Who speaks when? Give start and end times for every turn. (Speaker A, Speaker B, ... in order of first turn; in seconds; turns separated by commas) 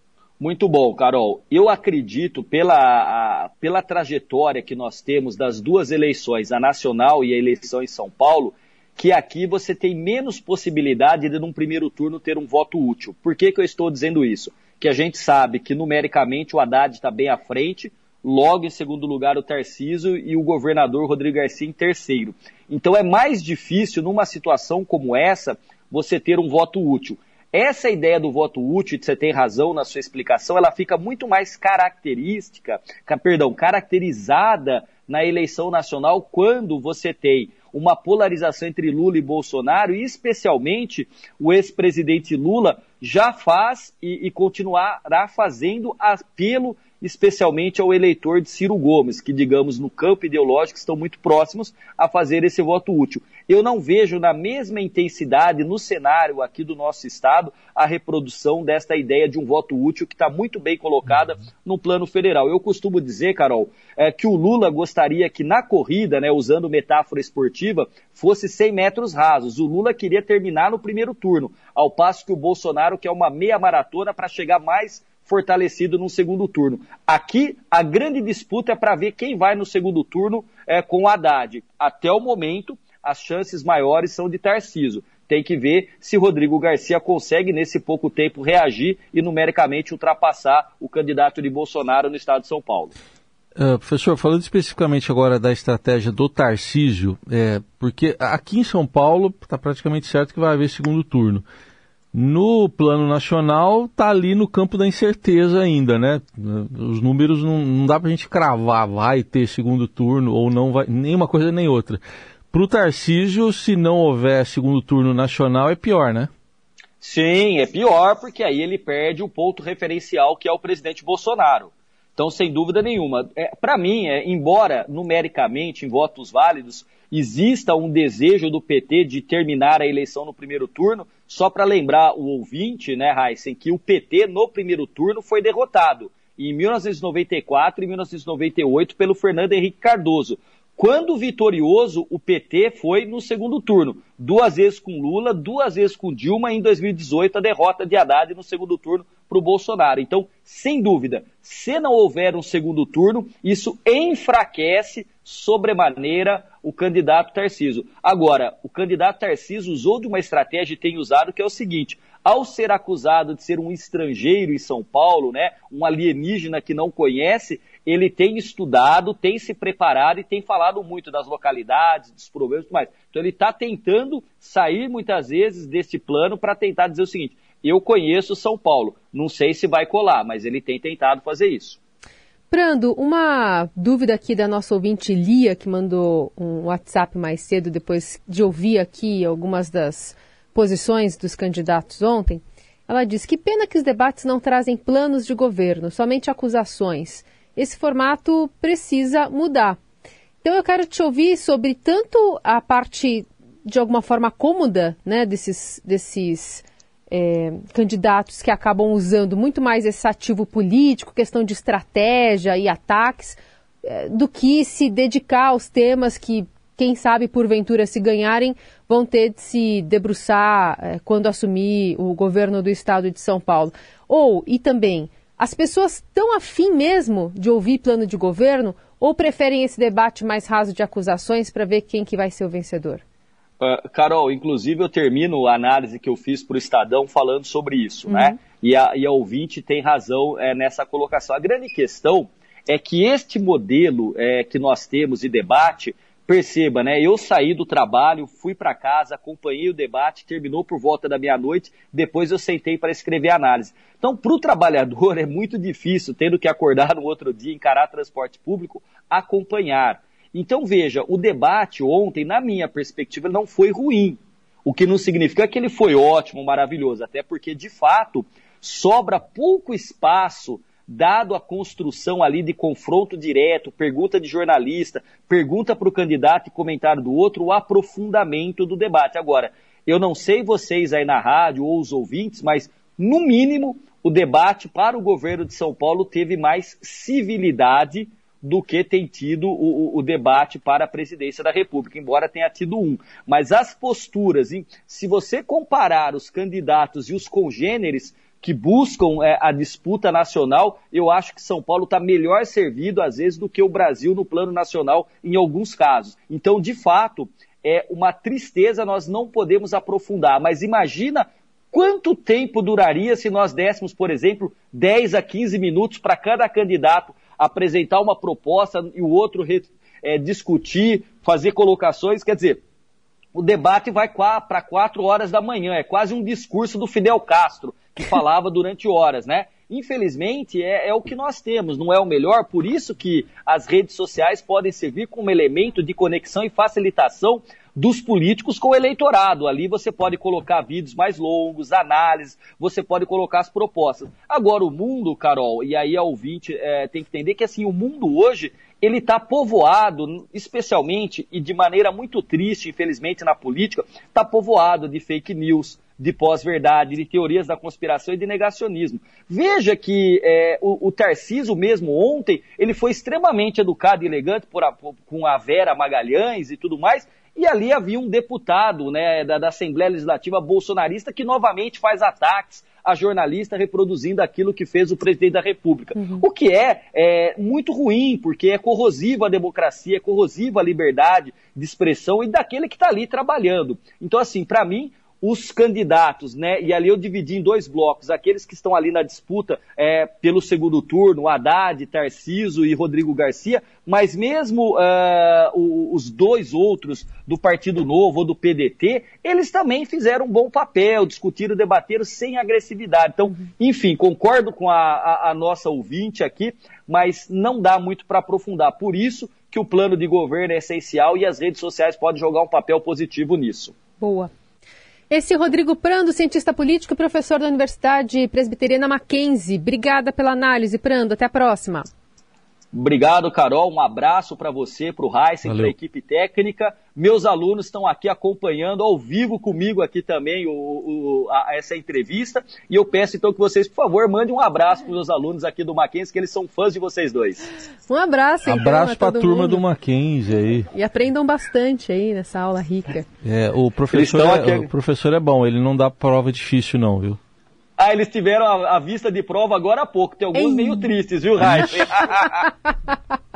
Speaker A: 0.4-92.9, Speaker B: 93.6-101.4, Speaker B: 102.1-116.3, Speaker A: 117.0-181.8, Speaker C: 182.5-199.8, Speaker C: 200.4-233.0, Speaker A: 233.6-322.6, Speaker C: 238.1-238.3, Speaker A: 323.3-413.7, Speaker C: 375.9-376.2, Speaker C: 414.0-414.3, Speaker C: 415.1-421.8, Speaker A: 422.7-437.4, Speaker B: 425.4-425.7, Speaker C: 437.9-439.6, Speaker B: 438.4-440.7, Speaker C: 440.7-443.1, Speaker B: 443.2-447.2, Speaker A: 443.9-444.7, Speaker A: 447.8-452.4, Speaker C: 450.3-450.9, Speaker B: 451.4-451.7, Speaker C: 452.2-452.9